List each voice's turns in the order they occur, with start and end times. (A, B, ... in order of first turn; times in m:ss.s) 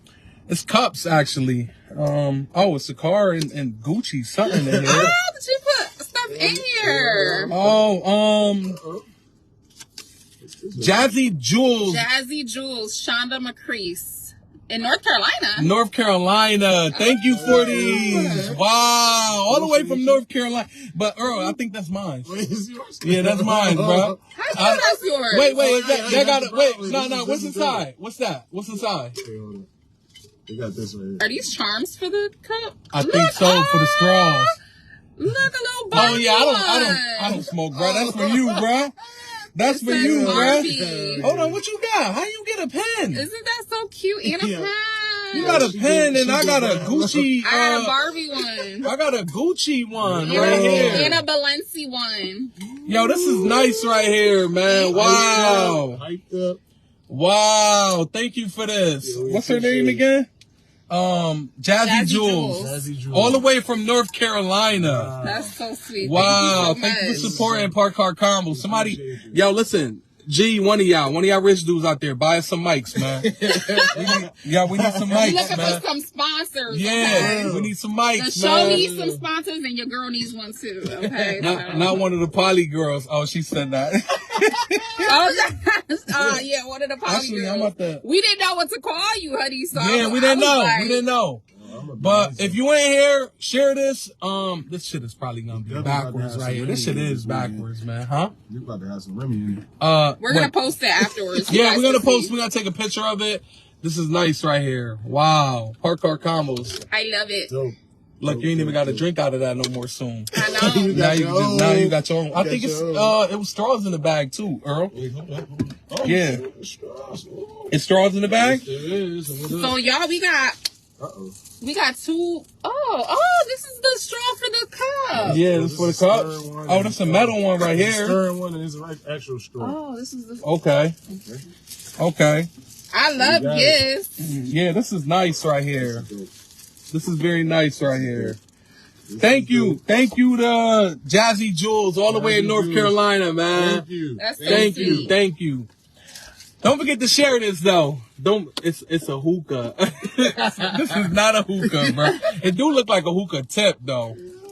0:00.5-0:05.2 A
0:04.5-0:05.1 B
0:04.8-0:07.5 C
0:06.3-0:07.8 B
0:07.5-0:08.8 A
0:08.6-0:09.0 B
0:10.4-0:11.1 B
0:10.8-0:12.1 A
0:11.9-0:15.7 C
0:15.6-0:22.3 A
0:16.9-0:18.4 C
0:17.3-0:18.6 B
0:19.3-0:20.2 B
0:22.2-0:24.2 B
0:23.0-0:29.2 A
0:24.3-0:26.2 C
0:25.5-0:27.9 B
0:29.1-0:29.7 B
0:30.4-0:31.3 B
0:31.2-0:34.6 C
0:32.9-0:34.6 A
0:35.2-0:38.3 C
0:35.9-0:39.0 A
0:35.9-0:36.2 B
0:37.8-0:38.6 B
0:39.5-0:43.3 A
0:39.6-0:41.3 C
0:39.9-0:41.6 B
0:43.1-0:45.6 C
0:44.2-0:44.7 B
0:45.3-0:47.3 B
0:45.3-0:48.0 A
0:47.4-0:48.9 C
0:48.8-0:51.2 A
0:50.0-0:51.2 B
0:50.2-0:52.5 C
0:52.6-0:54.0 B
0:52.9-0:56.0 A
0:54.6-0:55.0 C
0:54.9-0:56.6 B
0:57.1-1:00.3 A
0:59.0-1:00.0 B
1:00.9-1:05.2 A
1:01.8-1:02.9 C
1:02.5-1:03.5 B
1:04.7-1:05.6 B
1:05.2-1:07.5 C
1:06.0-1:13.3 A
1:06.2-1:07.8 B
1:08.5-1:09.4 B
1:12.9-1:15.8 B
1:13.7-1:13.9 C
1:13.9-1:15.8 A
1:15.1-1:17.5 C
1:16.7-1:18.9 A
1:17.0-1:17.7 B
1:18.2-1:22.0 C
1:18.5-1:19.2 B
1:21.1-1:22.0 B
1:21.4-1:25.1 A
1:25.0-1:31.0 C
1:27.0-1:28.0 A
1:29.7-1:31.4 A
1:31.5-1:32.6 B
1:32.0-1:38.3 A
1:35.5-1:37.7 B
1:38.5-1:39.6 B
1:39.8-1:40.5 A
1:40.2-1:42.3 C
1:41.5-1:46.8 A
1:46.9-1:47.5 C
1:47.5-1:49.0 B
1:48.2-1:50.3 A
1:50.3-1:51.0 C
1:50.4-1:53.2 B
1:50.8-1:54.9 A
1:54.9-1:59.8 B
1:56.0-1:56.4 A
1:57.7-1:58.7 A
1:59.5-2:00.6 C
2:01.0-2:01.4 B
2:01.6-2:05.4 C
2:05.2-2:09.8 B
2:05.2-2:08.2 A
2:09.6-2:10.4 C
2:10.4-2:11.0 A
2:11.2-2:11.4 B
2:12.0-2:12.5 A
2:12.9-2:14.1 C
2:13.2-2:13.8 B
2:14.2-2:16.0 A
2:15.8-2:16.3 B
2:16.9-2:18.4 A
2:17.8-2:18.4 B
2:19.1-2:19.8 B
2:19.2-2:23.8 A
2:22.1-2:23.0 B
2:23.5-2:25.1 B
2:24.2-2:25.1 C
2:24.4-2:25.7 A
2:26.6-2:34.2 A